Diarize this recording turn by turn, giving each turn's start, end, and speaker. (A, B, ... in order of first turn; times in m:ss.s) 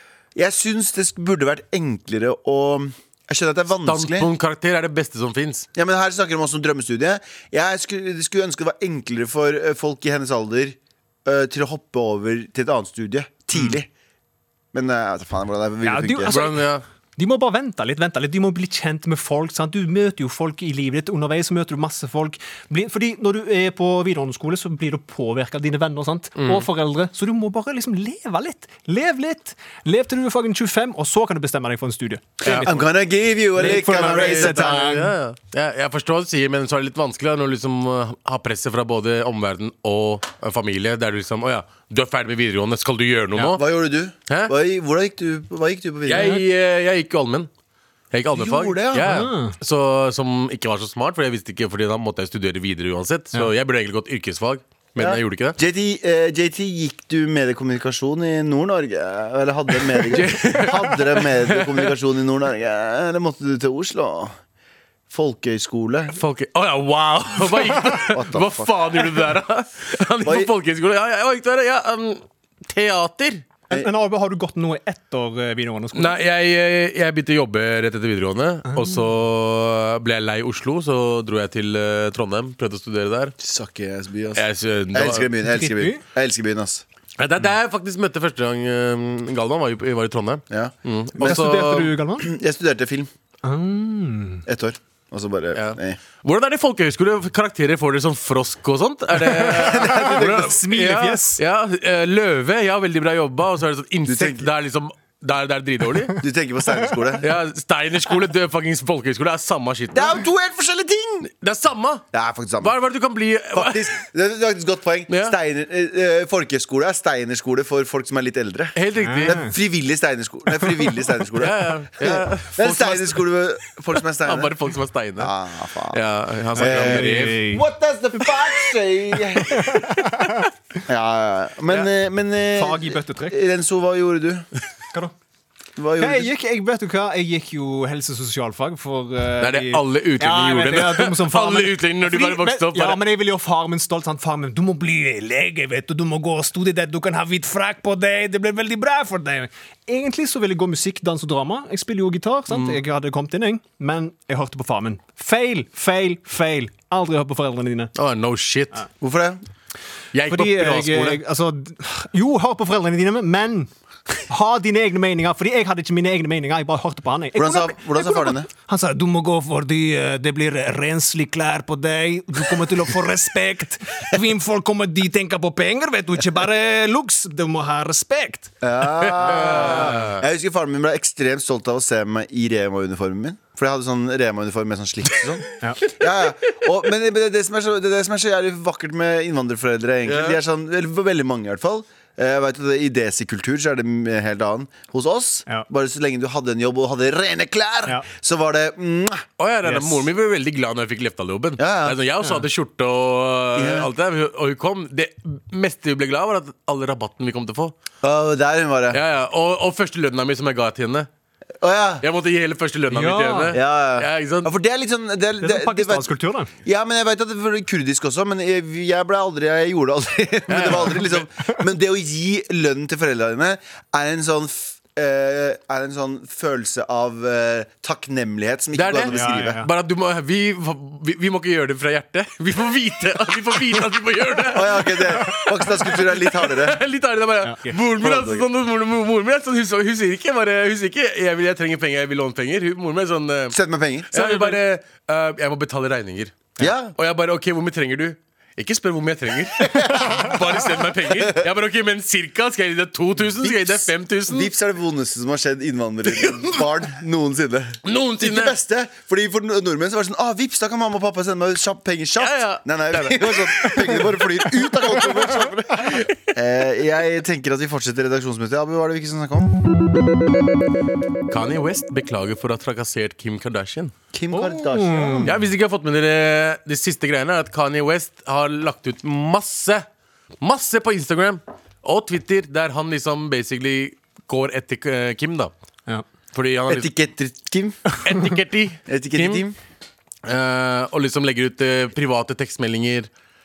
0:00.4-0:04.3 A
0:03.8-0:05.7 B
0:05.8-0:13.9 A
0:14.7-0:16.4 A
0:15.8-0:16.6 C
0:16.2-0:16.8 B
0:17.2-0:32.9 C
0:26.4-0:26.7 B
0:32.4-0:32.8 B
0:32.5-0:34.8 A
0:33.6-0:35.2 C
0:34.0-0:43.6 B
0:43.4-0:46.3 A
0:44.3-0:44.5 B
0:46.1-0:47.5 B
0:46.1-0:46.4 C
0:48.1-0:55.6 B
0:48.3-0:49.1 A
0:49.0-0:49.6 C
0:55.0-1:04.4 A
1:00.0-1:02.0 B
1:05.1-1:06.2 A
1:06.1-1:13.4 B
1:07.9-1:09.0 A
1:10.2-1:10.5 A
1:13.7-1:16.2 C
1:16.0-1:23.3 B
1:18.7-1:19.0 C
1:23.4-1:26.8 A
1:24.4-1:25.3 B
1:25.4-1:26.0 C
1:27.2-1:31.9 B
1:30.5-1:31.5 A
1:31.2-1:32.3 C
1:32.2-1:33.1 A
1:33.4-1:34.4 C
1:34.5-1:36.0 A
1:35.6-1:46.2 B
1:39.2-1:41.4 C
1:39.5-1:40.5 A
1:44.1-1:44.5 A
1:46.2-1:47.3 A
1:47.2-1:50.2 B
1:49.9-1:51.3 A
1:51.2-1:52.0 B
1:52.1-1:52.8 A
1:52.6-1:54.0 B
1:53.5-2:04.5 A
1:55.1-1:55.4 B
1:58.8-1:59.4 B
1:59.0-1:59.5 C
2:01.4-2:05.3 B
2:05.2-2:06.0 A
2:05.9-2:07.4 B
2:06.6-2:07.6 C
2:06.6-2:09.8 A
2:09.6-2:10.3 C
2:09.6-2:10.4 B
2:10.9-2:14.5 A
2:12.6-2:13.4 C
2:15.8-2:16.3 A
2:16.0-2:37.9 C
2:19.4-2:23.0 B
2:32.5-2:32.8 B
2:38.0-2:38.9 B
2:39.0-2:39.4 A
2:40.1-2:41.2 B
2:40.3-2:43.7 C
2:44.3-2:58.5 C
2:47.4-2:48.5 A
2:58.6-3:19.3 A
2:59.0-3:00.2 B
3:10.1-3:10.4 B
3:19.4-3:27.7 B
3:19.6-3:20.0 C
3:21.6-3:22.0 A
3:23.6-3:23.9 A
3:28.0-3:29.0 A
3:28.9-3:31.1 B
3:31.6-3:32.0 A
3:32.0-3:34.5 B
3:32.9-3:33.6 C
3:33.5-3:36.1 A
3:35.4-3:36.5 C
3:36.6-3:49.6 A
3:40.5-3:41.2 B
3:48.7-4:03.6 B
3:49.1-3:49.7 C
3:54.5-3:56.8 A
3:57.4-3:57.8 C
3:58.0-3:58.5 A
4:03.5-4:04.6 A
4:04.1-4:14.5 B
4:06.6-4:06.9 A
4:09.6-4:10.4 A
4:11.0-4:11.4 A
4:13.4-4:29.6 A
4:16.1-4:16.6 B
4:17.8-4:18.6 B
4:22.2-4:26.2 B
4:31.3-4:33.9 B
4:34.1-4:35.3 A
4:34.3-4:35.3 C
4:35.2-4:39.9 B
4:40.4-4:45.5 B
4:46.3-4:46.9 B
4:46.7-4:47.9 A
4:48.0-4:49.4 B
4:48.9-4:49.6 A
4:50.2-4:53.1 B